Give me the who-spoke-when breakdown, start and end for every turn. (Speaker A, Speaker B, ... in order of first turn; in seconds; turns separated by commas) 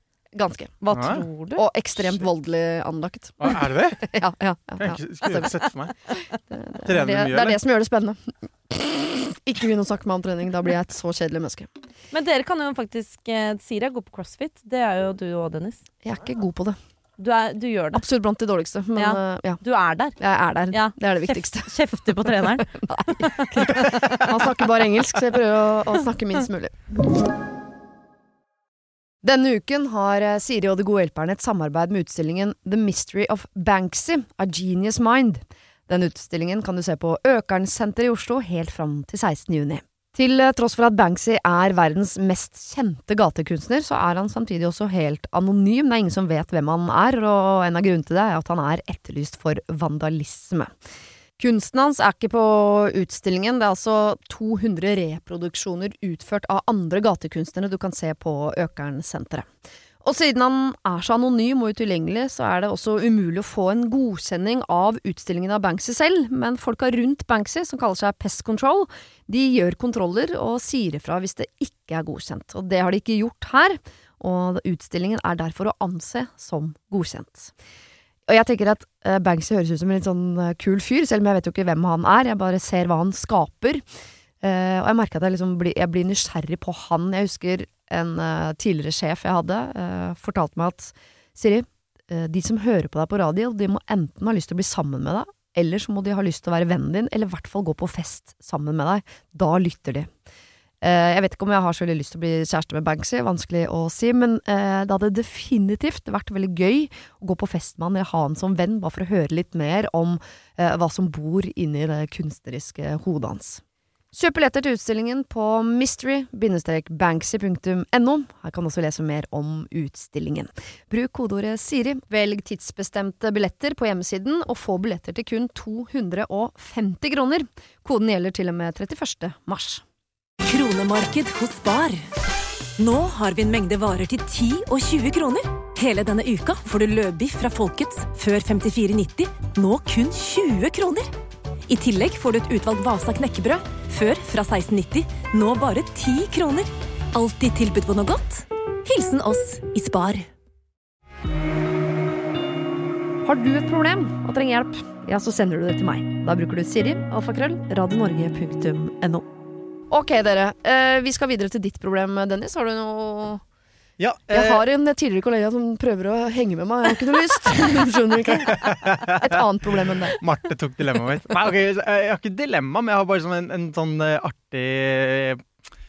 Speaker A: 0.3-0.8, Speaker B: 0.8-1.6, Speaker C: 0.9-1.2, Speaker A: 1.5-5.5, Speaker C: 3.4-4.0, Speaker C: 4.8-5.9, Speaker A: 6.5-11.7, Speaker C: 6.8-7.6, Speaker B: 12.1-15.8, Speaker A: 16.0-16.8, Speaker B: 17.2-18.1, Speaker A: 17.9-19.6, Speaker B: 18.9-20.2, Speaker A: 20.2-26.8, Speaker B: 20.7-24.2, Speaker C: 23.8-24.1, Speaker A: 29.2-50.7, Speaker A: 51.4-59.5, Speaker A: 60.0-77.5, Speaker A: 78.3-83.8, Speaker A: 84.4-100.1, Speaker A: 100.8-113.6, Speaker A: 114.1-129.8, Speaker D: 130.4-132.1, Speaker D: 132.8-141.1, Speaker D: 141.7-150.3, Speaker A: 153.2-159.3, Speaker A: 159.9-163.4, Speaker C: 164.0-164.6, Speaker A: 164.3-170.2, Speaker C: 168.5-169.4, Speaker C: 170.1-175.4